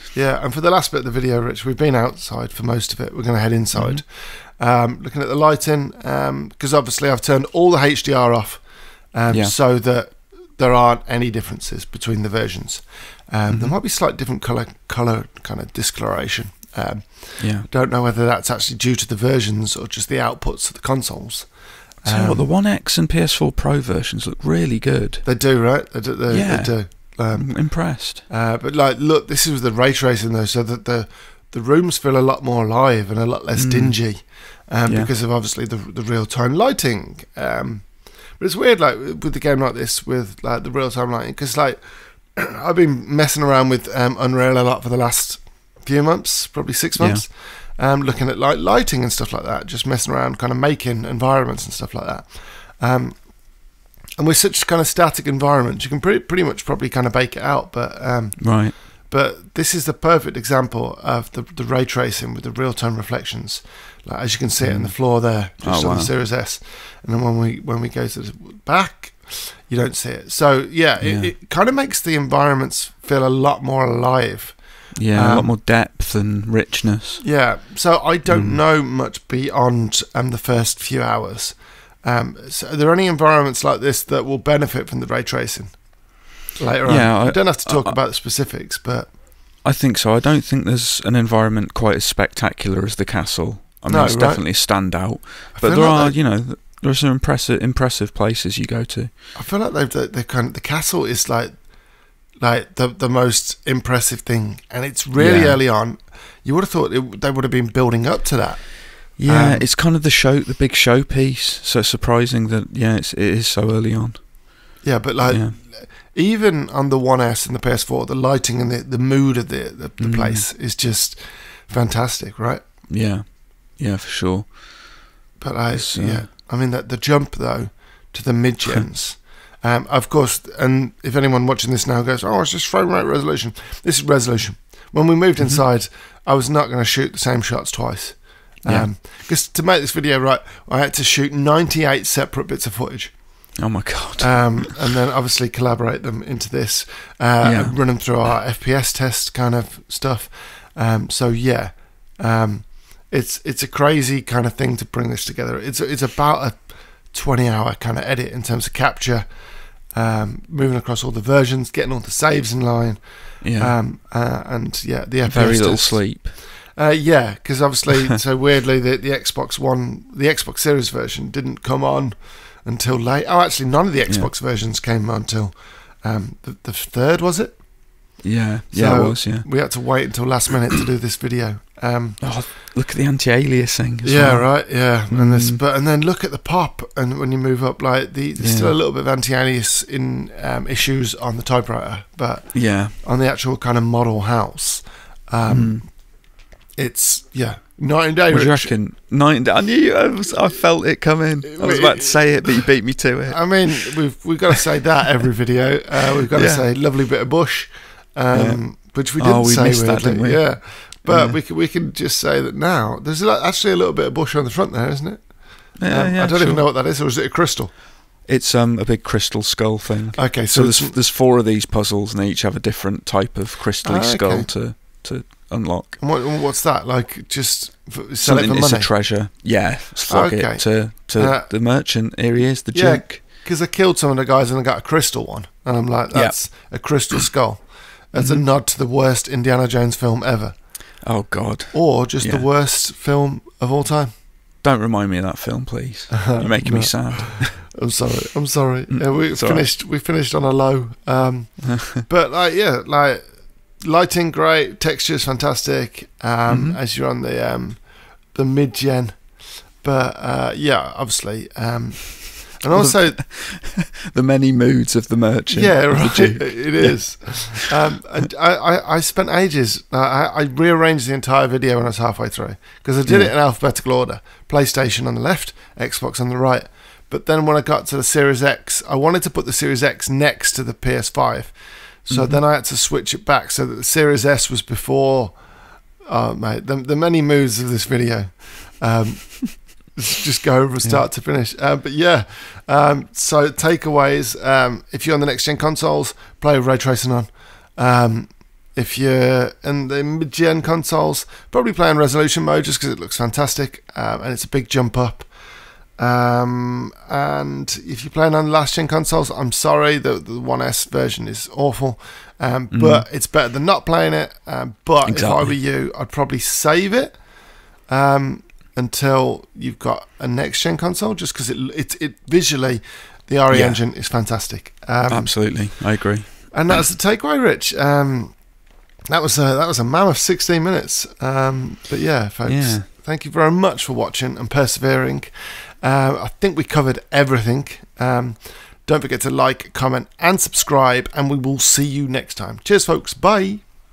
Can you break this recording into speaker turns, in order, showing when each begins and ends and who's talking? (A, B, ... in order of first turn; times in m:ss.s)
0:00.1-0:22.4 A
0:03.7-0:04.0 B
0:09.3-0:09.5 B
0:13.5-0:13.7 B
0:17.4-0:17.7 B
0:22.0-0:25.4 B
0:25.2-1:15.5 A
0:26.3-0:28.2 B
0:33.5-0:34.2 B
0:34.8-0:35.1 B
0:47.0-0:47.2 B
0:58.4-0:58.8 B
1:04.6-1:06.1 B
1:11.0-1:11.3 B
1:14.9-1:17.2 B
1:17.2-1:29.1 A
1:18.3-1:18.6 B
1:26.8-1:28.0 B
1:29.6-1:39.1 B
1:33.9-1:36.2 A
1:39.3-1:41.7 A
1:42.4-1:49.6 A
1:45.1-1:45.6 B
1:49.2-1:55.6 B
1:54.8-2:02.6 A
2:00.0-2:00.4 B
2:02.9-2:05.1 B
2:05.4-2:58.2 A
2:05.7-2:06.3 B
2:18.6-2:18.9 B
2:23.6-2:24.7 B
2:27.4-2:27.8 B
2:43.4-2:43.8 B
2:45.3-2:46.4 B
2:58.2-2:59.7 B
2:58.7-3:02.2 A
3:02.2-3:05.6 B
3:04.0-3:18.7 A
3:08.4-3:08.7 B
3:12.5-3:13.0 B
3:15.5-3:15.9 B
3:18.3-3:24.0 B
3:21.5-3:22.5 A
3:23.3-3:37.7 A
3:26.3-3:26.7 B
3:28.3-3:31.4 B
3:35.8-3:36.7 B
3:38.2-3:46.1 B
3:40.1-3:41.0 A
3:43.8-3:44.5 A
3:46.0-3:49.1 A
3:48.2-3:53.2 B
3:50.1-3:51.5 A
3:52.7-4:01.0 A
3:56.1-3:57.3 B
3:58.2-3:58.5 B
4:01.0-4:02.5 B
4:01.7-4:04.1 A
4:04.6-4:07.8 B
4:06.1-4:23.2 A
4:08.9-4:09.7 B
4:11.6-4:12.0 B
4:16.5-4:16.8 B
4:22.7-4:27.7 B
4:25.5-5:05.3 A
4:33.0-4:33.3 B
4:42.1-4:42.4 B
4:50.8-4:51.0 B
5:05.9-5:26.0 A
5:12.7-5:13.0 B
5:15.0-5:15.6 B
5:23.5-5:24.0 B
5:25.1-5:26.7 B
5:26.5-5:43.6 A
5:32.4-5:32.9 B